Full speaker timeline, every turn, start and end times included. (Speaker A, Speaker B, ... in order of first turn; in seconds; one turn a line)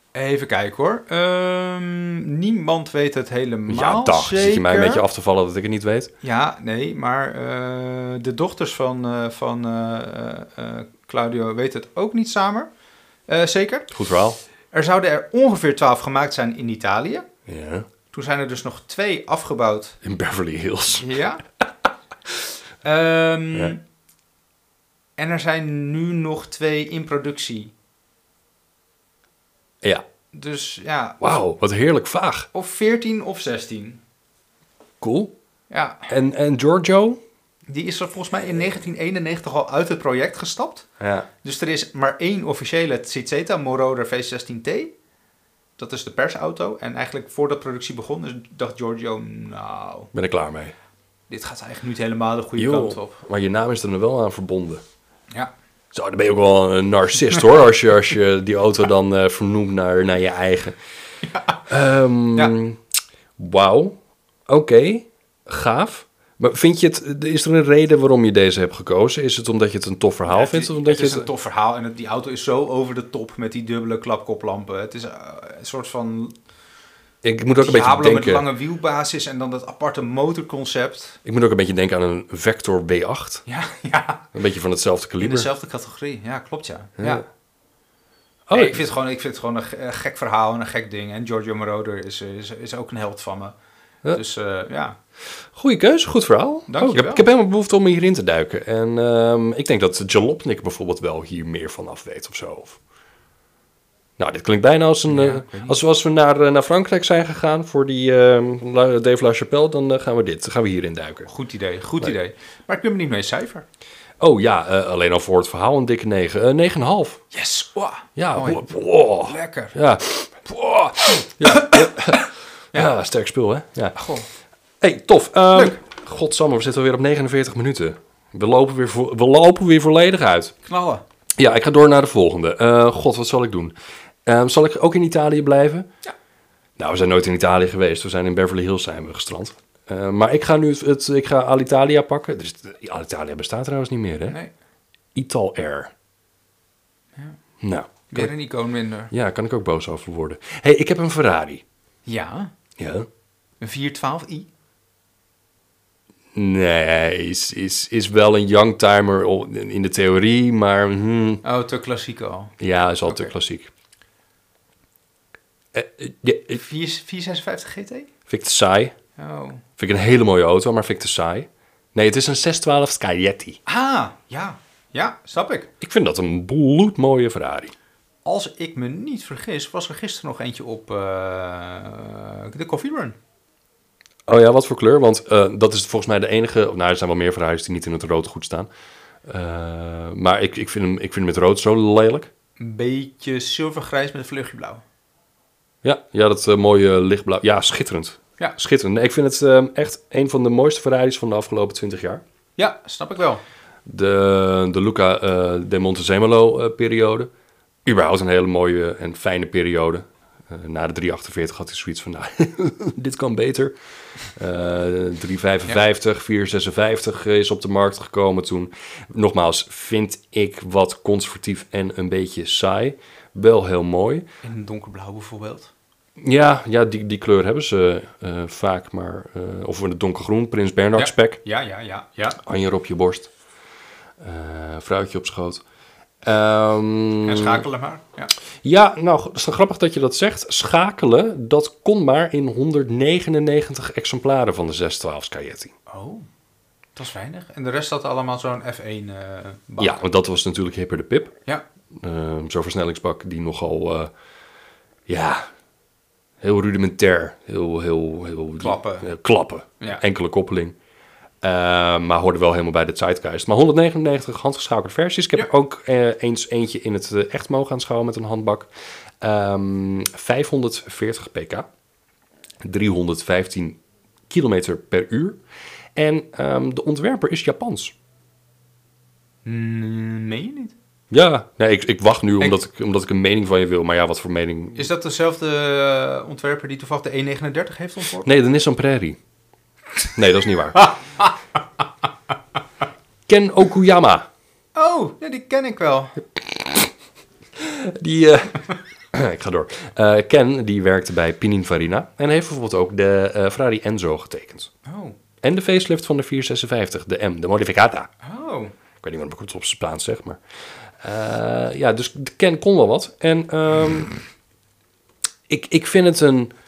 Speaker A: 0.1-5.0
Speaker B: 3.7-6.1
Speaker A: 6.2-12.7
Speaker A: 13.3-13.9
Speaker B: 13.9-14.4
Speaker A: 14.7-17.3
Speaker B: 17.5-17.9
Speaker A: 18.1-20.0
Speaker B: 20.0-21.1
Speaker A: 21.0-21.4
Speaker A: 22.8-23.8
Speaker A: 25.2-27.7
Speaker A: 30.3-31.4
Speaker B: 31.2-32.5
Speaker A: 32.5-34.0
Speaker B: 35.0-35.4
Speaker A: 35.7-36.1
Speaker B: 36.1-37.2
Speaker A: 37.7-40.9
Speaker B: 41.0-41.3
Speaker A: 41.4-44.9
Speaker A: 45.8-50.1
Speaker B: 50.1-50.7
Speaker A: 51.3-53.2
Speaker B: 52.6-54.8
Speaker B: 55.9-60.8
Speaker A: 61.3-61.6
Speaker B: 61.7-62.8
Speaker B: 63.4-71.3
Speaker A: 70.3-76.3
Speaker B: 77.2-78.5
Speaker A: 77.6-81.2
Speaker B: 81.2-83.4
Speaker A: 83.5-84.3
Speaker B: 84.3-85.5
Speaker A: 85.2-87.2
Speaker B: 87.0-87.2
Speaker B: 88.5-88.9
Speaker A: 88.5-93.6
Speaker A: 94.1-95.0
Speaker B: 95.5-102.8
Speaker A: 96.7-97.3
Speaker B: 104.2-111.3
Speaker A: 105.1-105.8
Speaker A: 111.3-113.7
Speaker B: 114.2-117.2
Speaker A: 117.3-118.7
Speaker B: 118.2-124.0
Speaker A: 119.2-119.8
Speaker A: 121.2-122.9
Speaker A: 124.0-124.3
Speaker B: 124.8-130.5
Speaker A: 125.5-125.8
Speaker A: 130.6-131.0
Speaker B: 131.4-133.8
Speaker B: 134.3-135.9
Speaker B: 136.8-144.4
Speaker B: 145.2-145.9
Speaker B: 147.6-148.3
Speaker A: 148.1-149.1
Speaker B: 149.1-151.6
Speaker A: 152.1-152.5
Speaker B: 152.8-153.1
Speaker A: 153.6-154.5
Speaker B: 156.3-161.4
Speaker A: 161.4-162.6
Speaker B: 162.6-163.7
Speaker A: 163.1-163.3
Speaker B: 165.7-166.6
Speaker A: 166.6-168.1
Speaker B: 168.3-169.0
Speaker A: 169.2-169.6
Speaker B: 169.8-173.6
Speaker A: 173.7-175.7
Speaker B: 175.8-177.7
Speaker A: 178.2-183.2
Speaker B: 184.3-188.7
Speaker B: 189.2-192.3
Speaker A: 192.6-194.8
Speaker B: 195.8-202.2
Speaker A: 202.6-203.4
Speaker B: 203.9-207.3
Speaker B: 207.8-213.8
Speaker B: 214.3-224.3
Speaker A: 224.4-225.7
Speaker B: 226.2-231.4
Speaker A: 231.0-232.4
Speaker B: 232.4-233.3
Speaker B: 234.2-235.6
Speaker B: 236.2-237.7
Speaker A: 237.2-238.3
Speaker B: 238.6-245.7
Speaker A: 245.9-246.3
Speaker A: 247.0-250.0
Speaker B: 249.8-251.4
Speaker B: 251.9-254.1
Speaker B: 255.1-255.5
Speaker B: 256.4-260.8
Speaker A: 258.6-259.1
Speaker B: 261.4-271.7
Speaker B: 272.6-273.8
Speaker B: 274.3-275.4
Speaker B: 275.9-277.9
Speaker A: 279.4-280.8
Speaker B: 281.1-284.9
Speaker A: 284.8-288.3
Speaker B: 288.2-289.2
Speaker B: 290.1-290.9
Speaker A: 290.8-291.3
Speaker B: 293.3-294.3
Speaker A: 294.8-296.2
Speaker B: 296.5-296.9
Speaker B: 297.6-304.7
Speaker A: 304.9-305.2
Speaker B: 305.4-308.1
Speaker A: 308.2-308.7
Speaker B: 309.0-310.4
Speaker B: 311.0-314.2
Speaker B: 315.5-316.5